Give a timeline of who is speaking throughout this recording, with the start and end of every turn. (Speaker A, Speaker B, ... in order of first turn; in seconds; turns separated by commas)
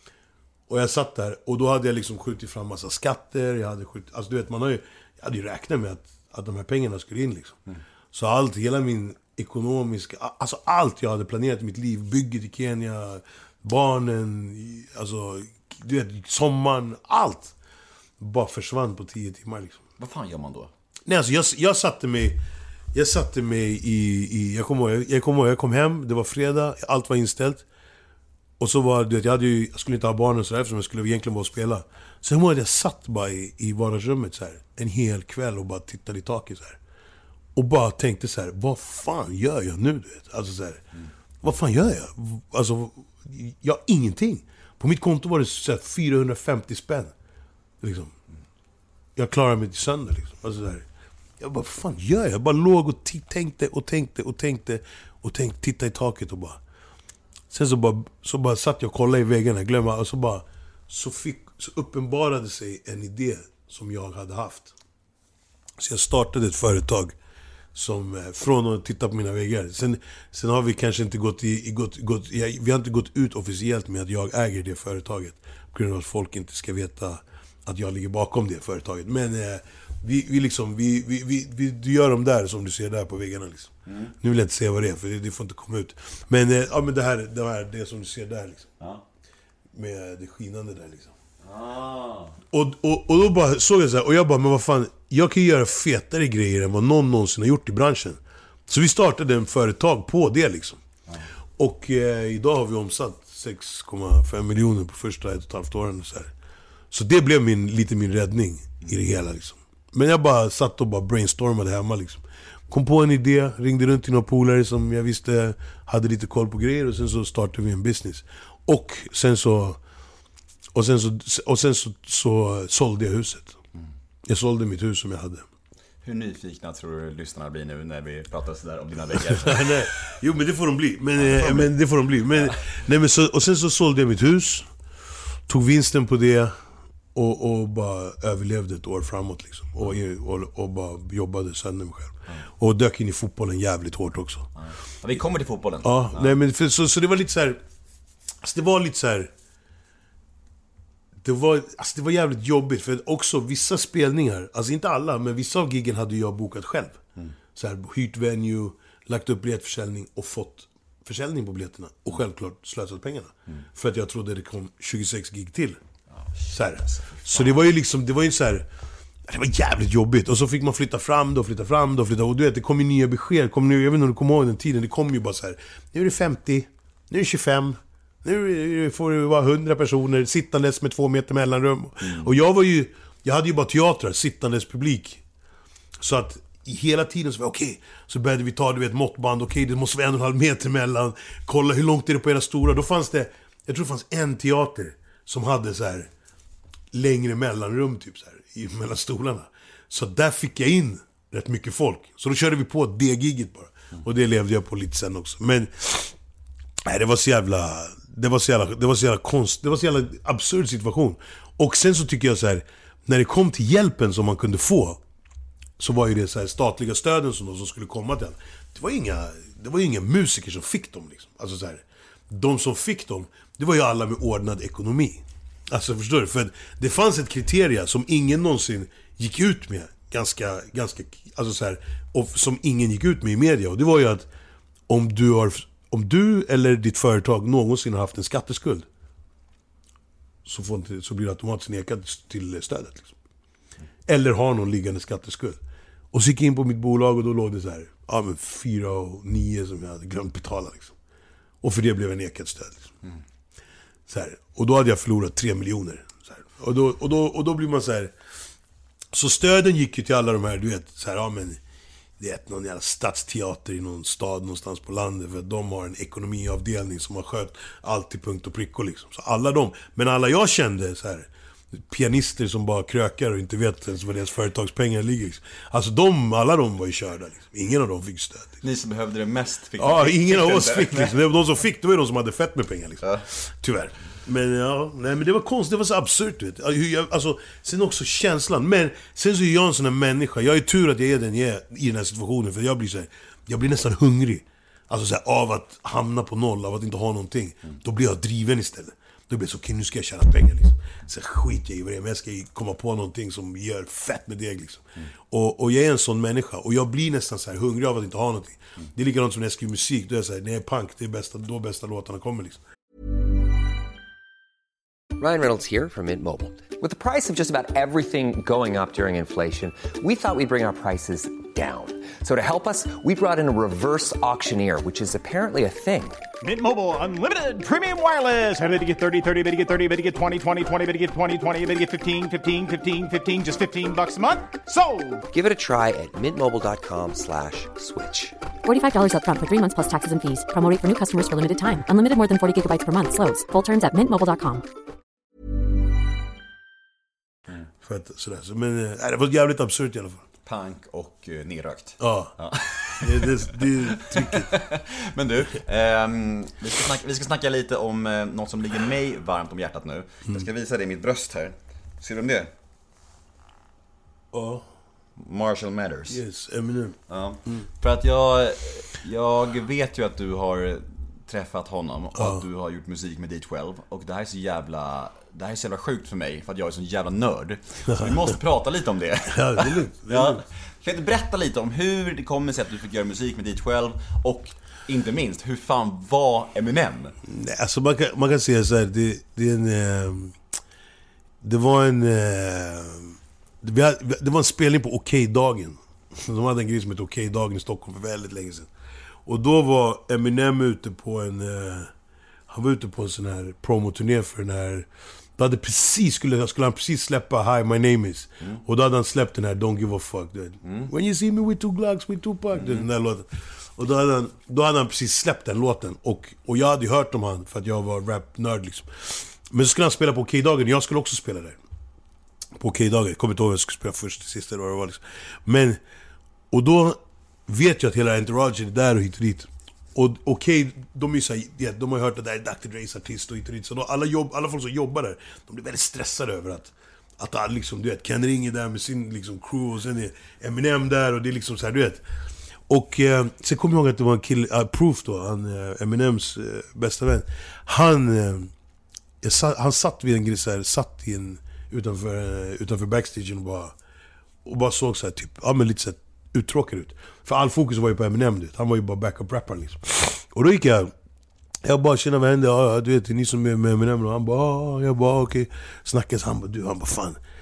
Speaker A: 0.7-7.6, Speaker A: 8.1-17.5, Speaker A: 18.2-19.8, Speaker B: 20.0-20.7, Speaker A: 21.1-22.4, Speaker A: 22.9-27.7, Speaker A: 28.6-36.8, Speaker A: 37.5-40.9, Speaker A: 41.4-47.1, Speaker A: 47.8-48.1, Speaker A: 49.2-50.9, Speaker A: 51.4-56.6, Speaker A: 57.5-64.8, Speaker A: 65.8-67.2, Speaker A: 67.7-88.7, Speaker B: 83.9-84.1, Speaker A: 89.7-91.1, Speaker B: 91.4-92.4, Speaker A: 92.5-100.8, Speaker A: 101.6-106.3, Speaker A: 106.9-119.8, Speaker A: 120.7-123.6, Speaker A: 124.2-125.5, Speaker B: 126.0-129.9, Speaker A: 129.3-134.7, Speaker B: 131.2-131.7, Speaker B: 132.3-132.6, Speaker A: 135.5-136.6, Speaker A: 137.2-144.5, Speaker B: 144.6-146.3, Speaker A: 145.8-147.6, Speaker A: 148.4-149.3, Speaker A: 151.2-157.0, Speaker A: 157.6-165.8, Speaker B: 166.1-167.6, Speaker A: 166.5-168.7, Speaker A: 169.3-185.2, Speaker B: 182.0-182.3, Speaker A: 186.0-196.1, Speaker A: 196.9-206.2, Speaker A: 206.8-215.0, Speaker A: 215.8-234.3, Speaker A: 234.9-238.9, Speaker A: 240.4-243.1, Speaker A: 244.1-245.6, Speaker A: 246.1-250.9, Speaker A: 251.6-252.9, Speaker A: 254.1-258.1, Speaker A: 259.1-261.6, Speaker A: 262.2-278.5, Speaker B: 278.6-281.2, Speaker A: 279.8-312.6, Speaker C: 315.2-326.2, Speaker D: 326.4-335.2, Speaker C: 335.3-338.4, Speaker E: 338.6-344.6, Speaker A: 347.8-350.2, Speaker B: 350.5-362.5, Speaker A: 352.0-352.4, Speaker A: 353.0-354.6, Speaker A: 364.3-364.7, Speaker B: 365.2-366.2, Speaker A: 366.1-367.7, Speaker B: 367.1-387.1, Speaker A: 372.1-372.4, Speaker A: 377.9-378.3, Speaker A: 379.3-380.4, Speaker A: 387.3-390.4, Speaker A: 391.4-398.7, Speaker A: 399.3-401.9, Speaker A: 402.5-421.6, Speaker B: 410.6-410.9, Speaker B: 412.5-412.9, Speaker A: 422.6-425.8, Speaker A: 426.5-442.0, Speaker A: 442.7-448.5, Speaker A: 449.2-453.8, Speaker A: 454.4-460.9, Speaker A: 461.6-467.2